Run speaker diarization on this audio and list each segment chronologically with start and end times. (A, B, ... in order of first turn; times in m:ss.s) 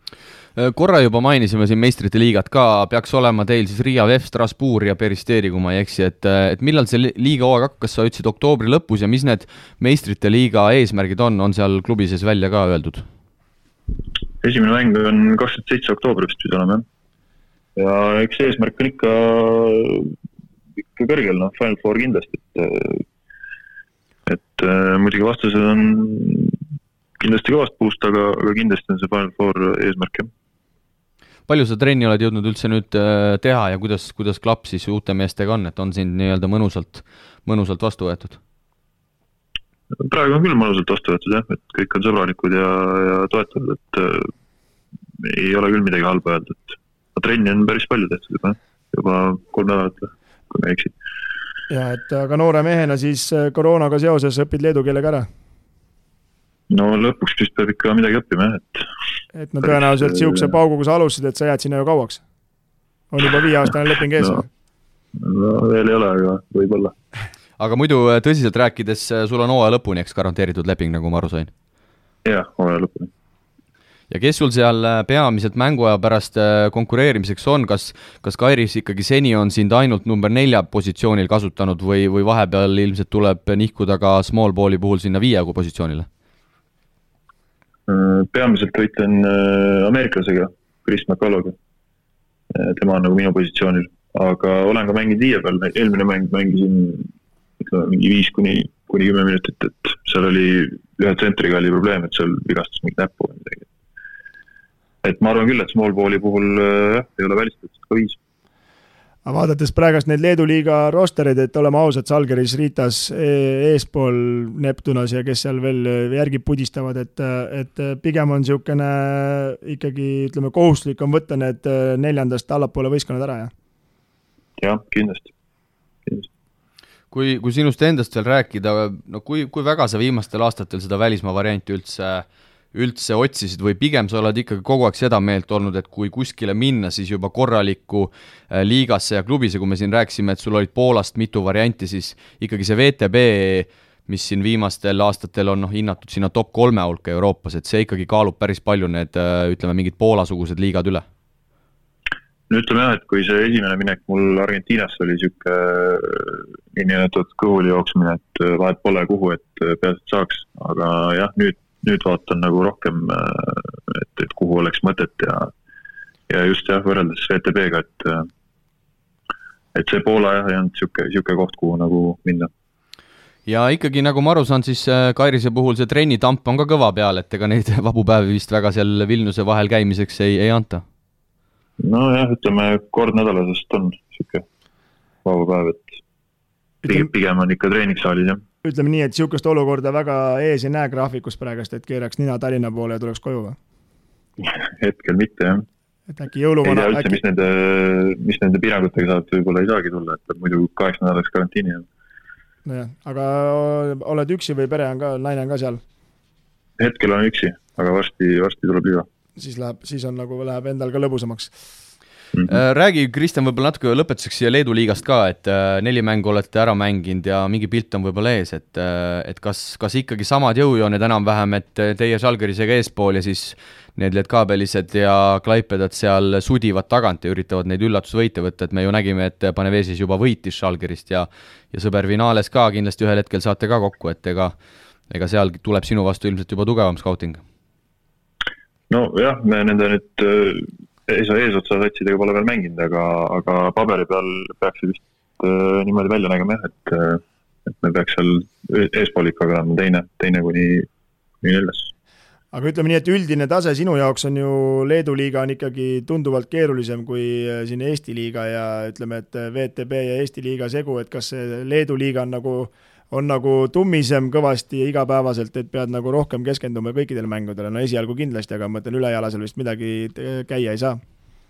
0:00.6-0:13.1 A
0:14.4-0:16.8 B
0:17.8-0:20.1 B
0:20.8-0:23.0 B
0:24.3-0:26.6 B
0:27.2-0:30.3 B
0:31.5-0:38.4 A
0:40.0-0:44.3 B
0:45.2-0:50.9 B
0:51.7-0:55.3 C
0:56.7-0:58.8 B
0:59.3-1:02.2 C
0:59.7-1:00.5 B
1:03.1-1:04.5 C
1:05.2-1:07.0 B
1:07.6-1:11.5 A
1:12.2-1:13.1 B
1:14.1-1:26.1 A
1:27.9-1:31.6 B
1:32.5-1:37.1 B
1:37.6-1:43.7 B
1:45.0-1:48.2 B
1:49.3-2:03.5 C
2:04.6-2:05.3 B
2:07.1-2:31.0 A
2:32.5-2:45.5 B
2:46.3-2:48.3 B
2:49.7-2:52.5 B
2:53.5-3:00.8 A
3:01.8-3:04.4 B
3:05.2-3:06.0 B
3:06.8-3:07.1 C
3:06.8-3:08.4 B
3:08.6-3:13.6 C
3:14.4-3:15.7 B
3:16.1-3:17.2 C
3:16.6-3:21.8 B
3:22.7-3:25.8 C
3:26.8-3:29.1 B
3:29.4-3:31.5 C
3:32.5-3:54.5 A
3:55.1-3:57.4 A
3:58.9-4:10.9 B
4:11.4-4:11.9 B
4:12.5-4:31.0 C